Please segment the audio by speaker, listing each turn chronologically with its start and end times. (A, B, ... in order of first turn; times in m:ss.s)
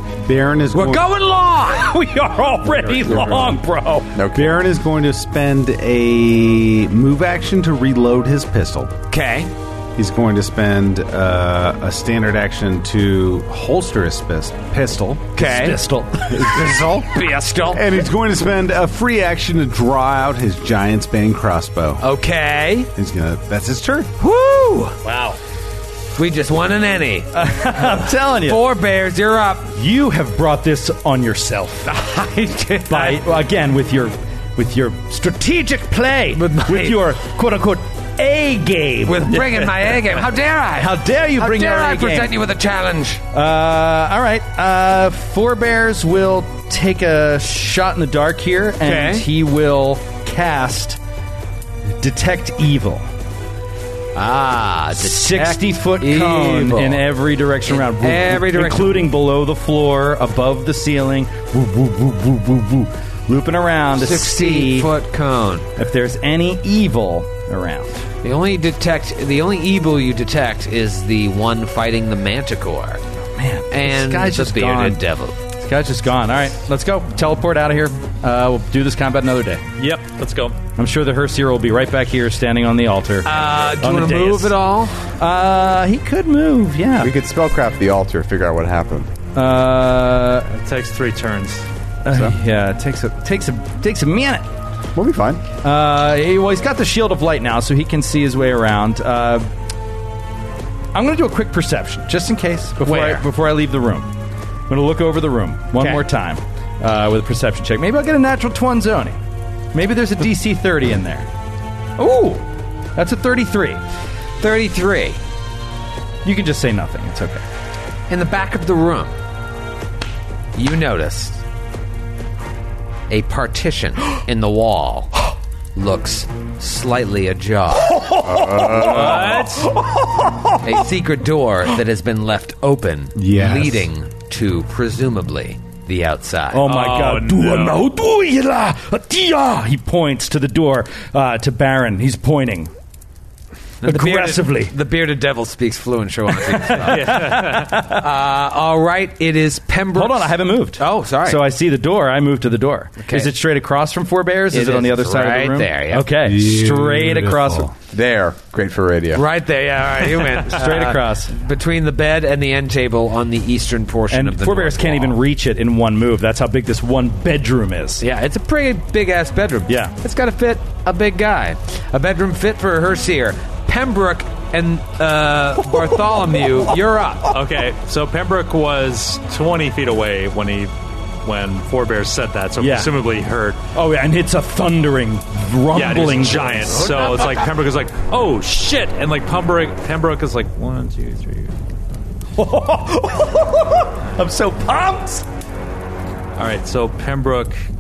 0:00.2-0:01.0 A
0:00.7-0:01.9 B
0:01.7-0:04.2 C
0:03.0-0:03.6 D
0:04.2-0:04.6 D
0:04.3-0:09.0 A
0:09.1-0:09.5 B
0:10.0-0:15.3 A
0:15.4-0:15.8 B
0:15.4-0:16.7 C
0:16.3-0:22.0 A
0:17.0-0:17.9 B
0:22.0-0:22.9 B
0:23.0-0:24.1 A
0:24.2-0:25.0 B
0:26.2-0:27.3 B
0:27.3-0:28.6 C
0:27.8-0:29.7 B
0:29.7-0:31.9 C
0:31.9-0:33.2 B
0:32.9-0:39.7 C
0:36.3-0:37.0 B
0:39.1-0:43.2 B
0:40.8-0:42.3 C
0:43.3-0:51.0 C
0:48.8-0:49.3 B
0:52.0-0:53.1 C
0:54.2-0:57.1 B
0:55.0-1:04.9 C
0:57.6-0:59.1 B
1:04.0-1:05.7 B
1:05.8-1:08.0 C
1:08.2-1:13.0 B
1:13.4-1:15.0 C
1:13.7-1:15.4 B
1:15.6-1:19.6 C
1:19.8-1:20.6 E
1:20.8-1:24.6 C
1:23.2-1:25.0 B
1:25.2-1:27.1 C
1:27.0-1:29.1 D
1:29.4-1:30.5 C
1:30.5-1:31.7 E
1:32.0-1:34.5 C
1:35.0-1:35.4 D
1:35.6-1:39.5 C
1:40.9-1:44.1 C
1:42.8-1:43.2 B
1:44.7-1:49.2 C
1:45.8-1:46.0 B
1:49.7-1:51.3 C
1:52.0-1:52.4 C
1:53.0-1:53.8 C
1:54.4-1:55.2 B
1:56.2-1:57.4 C
1:58.1-1:59.1 B
2:00.6-2:01.4 B
2:03.1-2:08.0 B
2:07.9-2:10.8 C
2:08.2-2:09.5 D
2:08.8-2:09.7 E
2:10.6-2:16.7 B
2:13.2-2:13.9 A
2:16.5-2:22.7 C
2:16.7-2:17.8 E
2:23.8-2:31.4 B
2:23.8-2:24.7 C
2:26.5-2:28.0 C
2:26.9-2:27.7 E
2:29.9-2:37.7 C
2:33.0-2:33.3 B
2:34.5-2:36.1 B
2:36.2-2:37.7 A
2:37.9-2:39.2 D
2:39.1-2:45.2 B
2:40.5-2:41.3 C
2:44.1-2:48.0 C
2:48.0-2:57.3 B
2:49.7-2:50.0 C
2:57.3-3:03.6 E
3:02.6-3:02.9 C
3:03.7-3:07.3 C
3:05.7-3:11.6 E
3:12.4-3:15.2 C
3:16.4-3:17.6 E